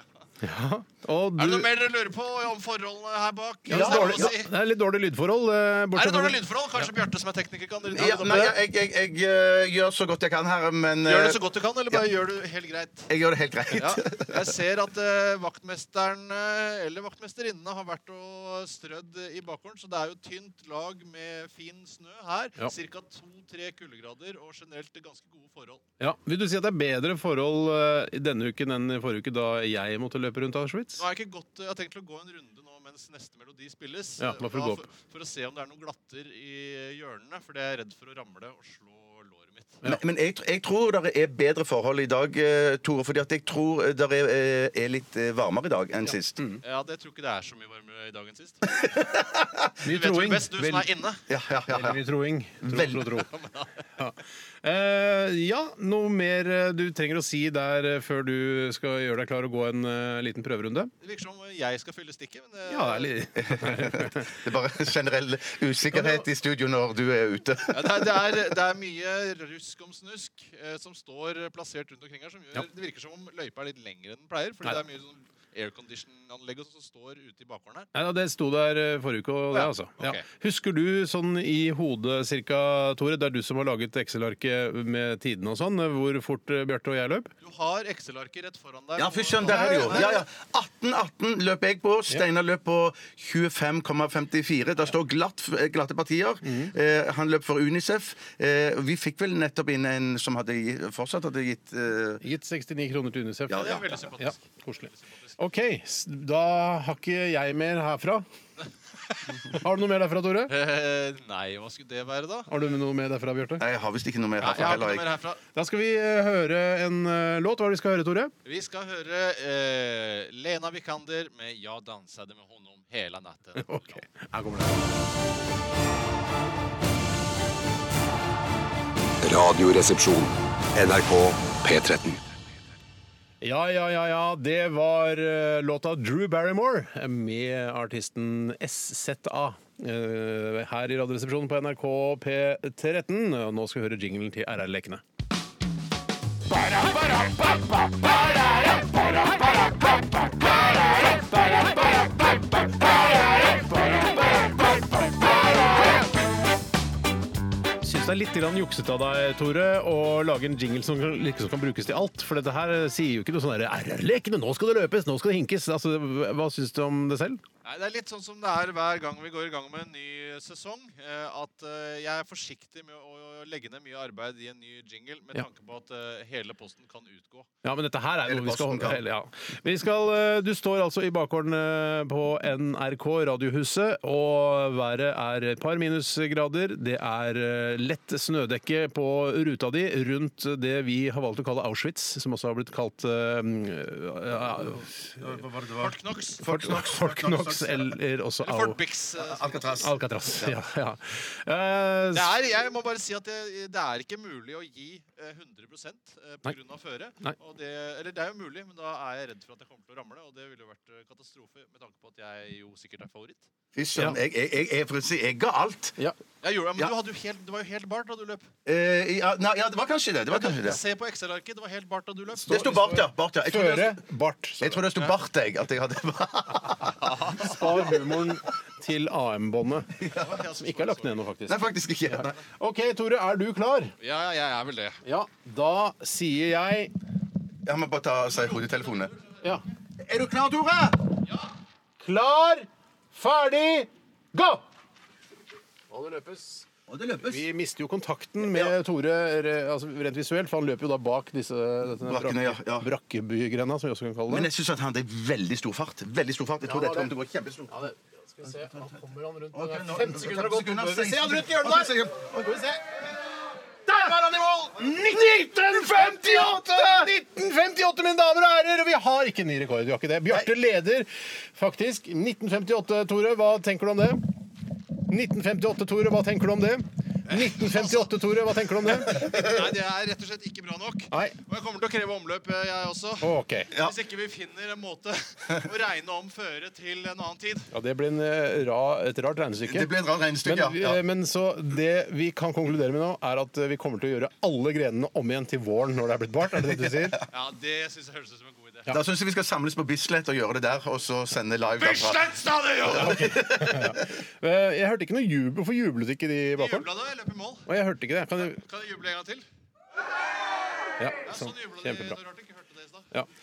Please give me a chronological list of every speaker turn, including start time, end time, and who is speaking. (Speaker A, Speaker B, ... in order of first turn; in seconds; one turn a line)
Speaker A: 0.4-1.7
Speaker B: 1.4-4.5
Speaker A: 3.7-6.4
Speaker C: 3.7-4.3
Speaker B: 5.9-8.6
Speaker C: 7.9-11.4
Speaker B: 11.0-13.1
Speaker C: 13.1-14.4
Speaker B: 13.7-25.8
Speaker A: 26.0-31.0
Speaker B: 31.0-39.8
Speaker A: 34.2-34.9
Speaker C: 39.8-46.4
Speaker B: 46.6-48.8
Speaker C: 48.9-49.5
Speaker A: 49.8-50.9
Speaker B: 49.8-51.2
Speaker C: 51.3-52.0
Speaker A: 51.7-53.3
Speaker C: 52.6-53.2
Speaker B: 53.3-53.7
Speaker A: 54.0-60.9
Speaker B: 61.0-63.2
Speaker A: 62.7-64.2
Speaker C: 63.4-68.3
Speaker A: 65.9-66.2
Speaker B: 67.7-77.9
Speaker A: 77.9-87.3
Speaker B: 79.5-80.2
Speaker B: 87.4-90.2
Speaker C: 89.0-102.2
Speaker A: 89.4-90.2
Speaker A: 96.4-96.7
Speaker A: 102.2-104.8
Speaker C: 103.5-103.9
Speaker B: 103.5-105.4
Speaker A: 105.4-108.2
Speaker A: 109.5-110.5
Speaker B: 110.5-112.6
Speaker A: 112.5-113.6
Speaker C: 113.6-115.1
Speaker B: 114.4-115.4
Speaker A: 115.5-118.3
Speaker B: 118.4-124.1
Speaker A: 123.6-124.8
Speaker D: 129.2-132.2
Speaker A: 133.4-145.0
Speaker A: 157.8-167.4
Speaker B: 167.6-177.5
Speaker A: 177.6-195.1
Speaker C: 178.2-179.0
Speaker C: 195.1-197.9
Speaker B: 195.8-196.4
Speaker A: 196.4-198.8
Speaker B: 198.4-199.7
Speaker C: 199.2-200.6
Speaker A: 199.8-202.3
Speaker B: 202.1-213.5
Speaker C: 213.7-216.0
Speaker B: 216.4-218.5
Speaker C: 218.7-220.8
Speaker B: 220.3-222.8
Speaker C: 222.4-224.0
Speaker A: 222.5-224.8
Speaker C: 224.6-227.1
Speaker B: 227.0-227.6
Speaker A: 227.4-229.9
Speaker C: 230.0-230.4
Speaker B: 230.1-231.2
Speaker A: 230.6-233.9
Speaker C: 231.5-232.4
Speaker B: 234.0-235.0
Speaker A: 235.0-236.9
Speaker C: 237.6-239.1
Speaker C: 240.0-241.0
Speaker A: 242.0-244.6
Speaker A: 245.9-246.7
Speaker C: 246.9-247.4
Speaker A: 247.2-254.5
Speaker C: 248.4-248.7
Speaker C: 252.0-252.9
Speaker C: 254.3-257.8
Speaker A: 256.7-257.1
Speaker A: 257.7-262.8
Speaker C: 258.6-258.9
Speaker C: 259.5-262.5
Speaker A: 263.9-274.2
Speaker A: 275.1-279.3
Speaker B: 277.3-278.1
Speaker B: 279.0-287.7
Speaker A: 281.1-281.4
Speaker A: 283.2-283.7
Speaker A: 287.7-289.9
Speaker C: 289.6-291.0
Speaker A: 290.4-297.2
Speaker C: 296.9-297.2
Speaker B: 297.3-298.9
Speaker C: 298.9-304.0
Speaker B: 301.8-303.2
Speaker A: 302.9-306.9
Speaker B: 306.6-307.7
Speaker A: 307.7-308.6
Speaker B: 308.4-309.4
Speaker A: 311.0-312.2
Speaker B: 311.2-313.1